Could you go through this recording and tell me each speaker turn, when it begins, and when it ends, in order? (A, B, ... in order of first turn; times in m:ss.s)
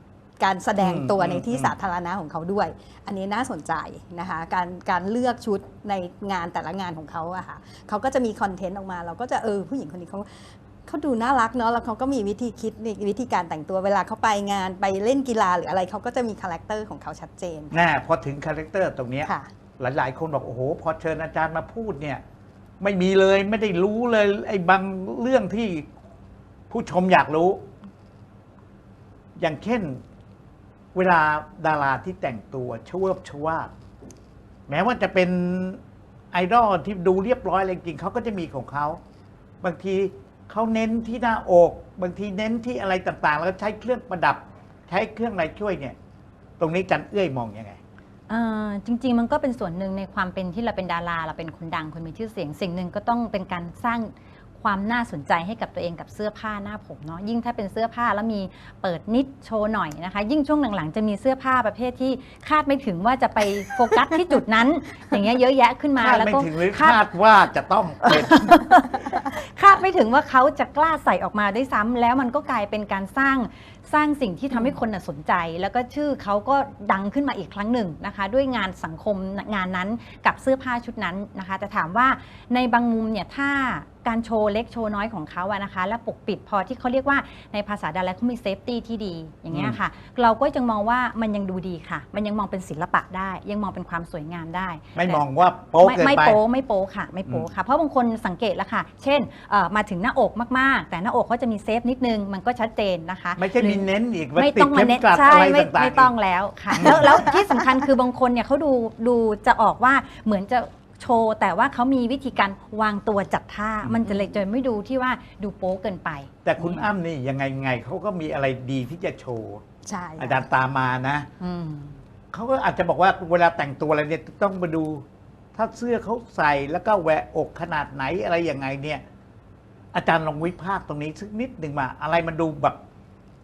0:00.4-0:17.8 A
0:00.8-0:01.7 B
0:17.7-0:22.2 B
0:22.8-0:25.9 B
0:26.7-0:27.6 B
0:29.4-0:30.0 B
0:30.9-0:33.7 B
0:34.7-0:35.8 B
0:36.3-0:39.0 B
0:39.6-0:46.0 B
0:46.6-0:47.8 B
0:48.3-1:07.0 C
1:06.0-1:08.8 B
1:08.0-1:35.2 C
1:29.5-1:29.8 B
1:34.9-1:36.4 B
1:35.8-1:43.8 C
1:43.4-1:46.1 B
1:44.4-1:56.9 C
1:46.7-1:47.3 B
1:56.4-1:59.6 B
1:59.8-2:00.4 A
2:00.2-2:01.3 B
2:01.4-2:02.0 C
2:02.3-2:09.0 B
2:09.9-2:12.8 B